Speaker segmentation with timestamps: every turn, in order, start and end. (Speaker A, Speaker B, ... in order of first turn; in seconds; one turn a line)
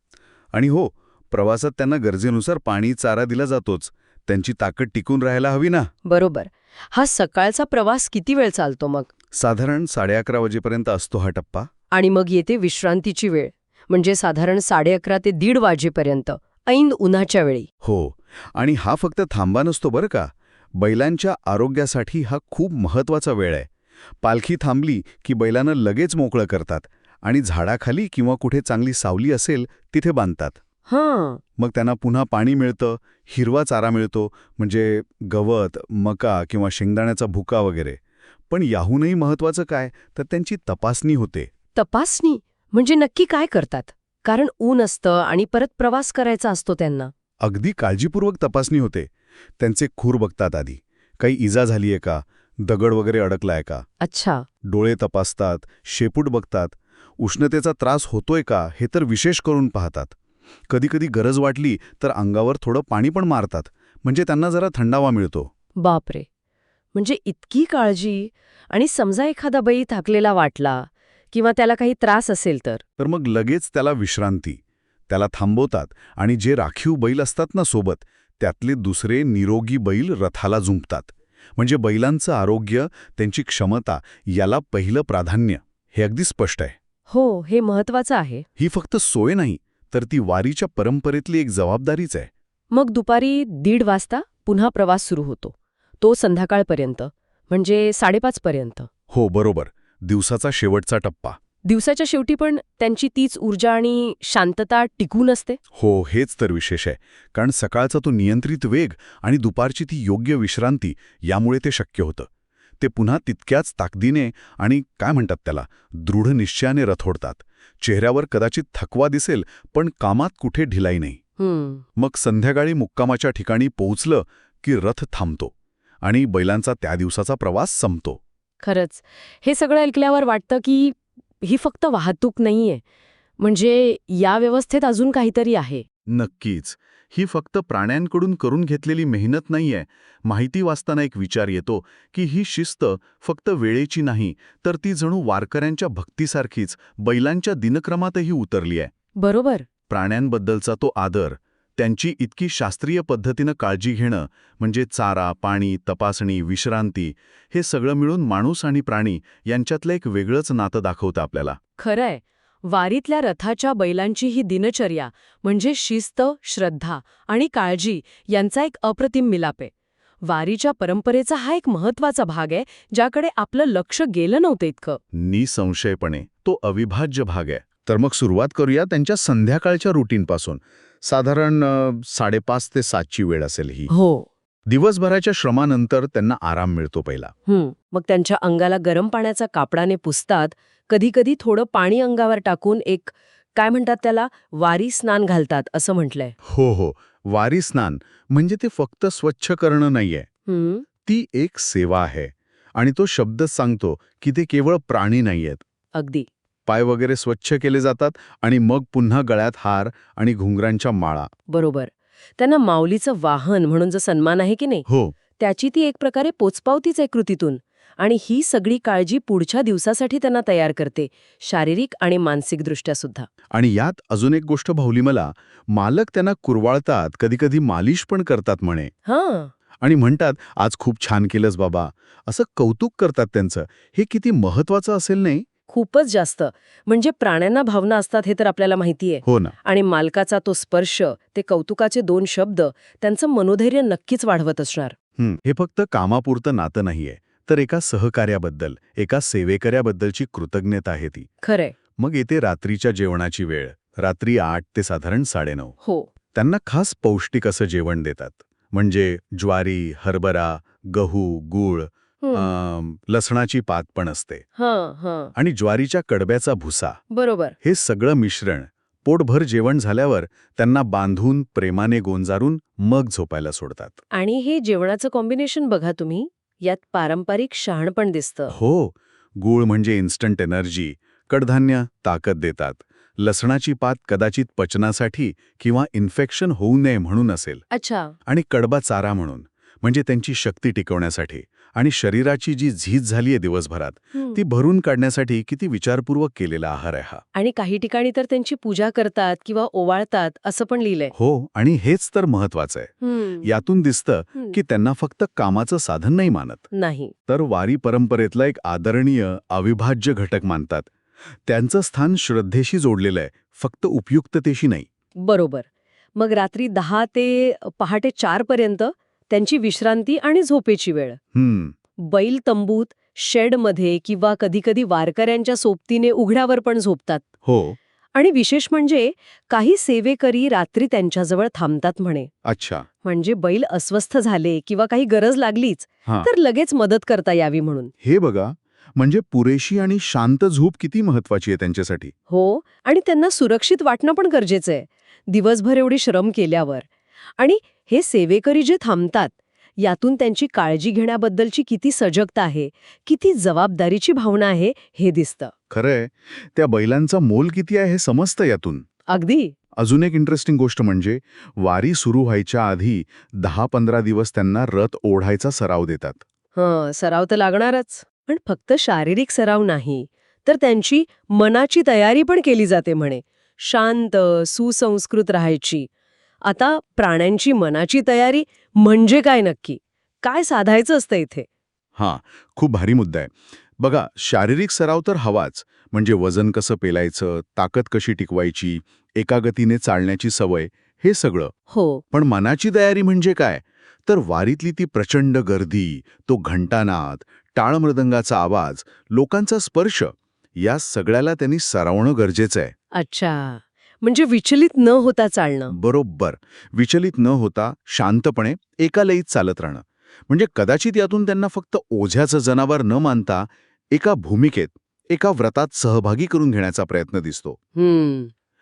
Speaker A: 0.5-5.9
Speaker B: 6.1-9.1
Speaker A: 9.3-11.7
Speaker B: 11.9-17.7
Speaker A: 17.8-23.7
Speaker A: 24.2-30.6
Speaker B: 30.9-31.4
Speaker A: 31.6-41.5
Speaker B: 41.8-47.1
Speaker A: 47.4-53.9
Speaker B: 54.0-54.5
Speaker A: 54.7-60.1
Speaker A: 60.7-65.5
Speaker B: 65.8-66.3
Speaker B: 66.9-72.8
Speaker A: 73.0-86.8
Speaker B: 87.1-88.5
Speaker A: 88.6-92.3
Speaker B: 92.7-98.9
Speaker A: 99.1-101.4
Speaker B: 101.7-105.6
Speaker A: 105.8-112.3
Speaker A: 112.8-121.2
Speaker B: 121.4-121.8
Speaker A: 122.0-125.5
Speaker A: 126.0-128.2
Speaker B: 128.6-132.8
Speaker B: 133.4-135.8
Speaker A: 136.1-148.9
Speaker B: 149.2-149.7
Speaker A: 149.9-161.6
Speaker B: 161.8-169.7
Speaker B: 170.2-175.0
Speaker A: 175.1-183.9
Speaker B: 183.9-184.3
Speaker A: 184.7-187.3
Speaker B: 187.5-196.3
Speaker A: 196.4-200.3
Speaker B: 200.5-200.8
Speaker A: 201.1-205.6
Speaker B: 205.9-206.3
Speaker A: 206.7-211.3
Speaker B: 211.5-214.9
Speaker A: 214.9-215.2
Speaker B: 215.4-223.3
Speaker A: 223.5-228.9
Speaker B: 229.1-229.5
Speaker A: 229.8-235.4
Speaker B: 235.7-244.9
Speaker A: 239.2-239.6
Speaker A: 245.2-251.3
Speaker B: 251.4-251.8
Speaker A: 252.0-255.8
Speaker B: 255.8-256.1
Speaker A: 256.3-264.4
Speaker B: 262.2-262.6
Speaker B: 264.6-265.3
Speaker A: 265.4-267.0
Speaker B: 267.1-267.6
Speaker A: 267.6-274.0
Speaker B: 274.1-278.6
Speaker A: 278.5-287.6
Speaker B: 287.7-288.1
Speaker A: 288.3-297.2
Speaker B: 297.4-301.1
Speaker A: 301.1-306.7
Speaker B: 303.0-303.5
Speaker B: 306.7-307.1
Speaker A: 307.3-310.9
Speaker A: 311.5-314.9
Speaker B: 315.2-321.2
Speaker A: 321.3-321.7
Speaker B: 322.0-327.3
Speaker A: 327.4-327.8
Speaker B: 328.1-332.3
Speaker A: 332.4-332.9
Speaker B: 333.0-337.9
Speaker A: 338.0-342.1
Speaker B: 342.3-355.5
Speaker A: 355.7-358.9
Speaker B: 359.1-359.6
Speaker A: 359.8-366.2
Speaker B: 366.6-375.9
Speaker B: 376.4-381.5
Speaker A: 382.0-391.5
Speaker B: 391.7-392.0
Speaker A: 392.1-402.7
Speaker B: 402.9-405.7
Speaker A: 405.7-417.6
Speaker B: 417.8-418.3